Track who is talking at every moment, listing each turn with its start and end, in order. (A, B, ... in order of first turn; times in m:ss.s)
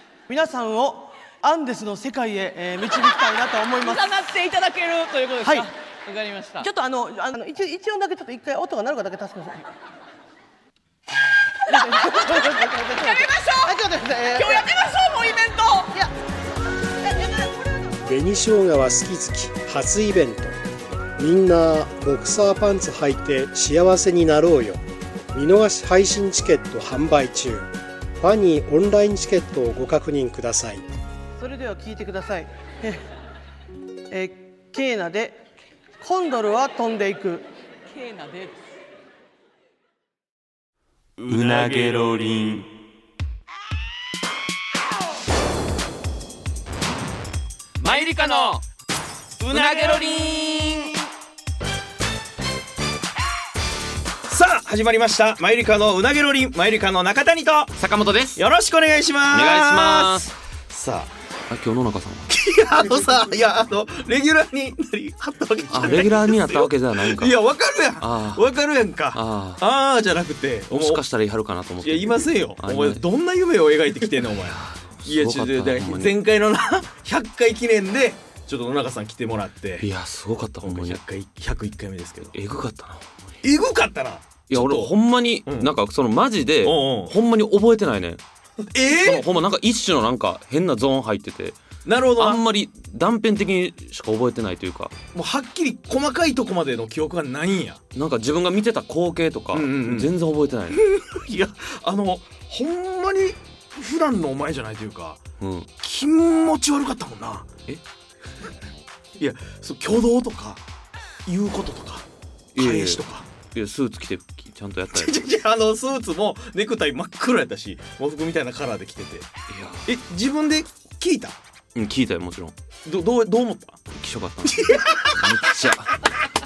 0:00.3-0:04.1 A
0:03.8-0:06.7 B
0:05.4-0:05.7 A
0:06.6-0:09.7 A
0:11.7-0:13.8 B
0:11.7-0:14.7 A
0:14.4-0:15.9 B
0:17.0-0:17.6 A
0:18.0-0:20.6 C
0:21.2-0:24.8 C
0:25.3-0:30.8 C
0:31.4-0:33.0 A
0:34.1-0:35.4 A
0:36.0-0:37.5 A
0:37.9-0:38.6 B
0:41.2-0:42.3 D
0:41.3-0:42.7 E
0:47.8-0:48.6 E
0:49.4-0:50.3 D
0:49.4-0:50.9 E
0:54.3-0:57.8 D
0:57.8-0:58.4 E
0:58.4-1:01.1 D
0:59.3-1:00.3 E
1:01.5-1:02.3 E
1:02.3-1:11.0 D
1:05.7-1:07.4 E
1:08.0-1:08.5 E
1:09.1-1:09.7 E
1:10.7-1:13.0 E
1:11.8-1:19.9 D
1:14.4-1:16.1 E
1:19.8-1:21.0 E
1:20.6-1:22.3 D
1:22.3-1:23.3 E
1:23.4-1:24.9 D
1:24.5-1:28.2 E
1:25.5-1:25.7 D
1:26.6-1:27.2 D
1:28.7-1:29.3 D
1:29.0-1:31.6 E
1:31.8-1:32.4 D
1:32.2-1:34.9 E
1:35.1-1:37.8 D
1:37.9-1:40.8 E
1:39.5-1:40.1 D
1:40.7-1:45.2 D
1:45.4-1:45.7 E
1:45.8-1:47.5 D
1:49.2-1:50.6 D
1:51.3-1:53.3 D
1:52.6-1:55.2 E
1:54.9-1:59.3 D
1:59.5-1:59.9 E
1:59.8-2:01.4 D
2:01.8-2:02.5 E
2:02.8-2:03.8 D
2:03.9-2:06.1 E
2:04.4-2:05.3 D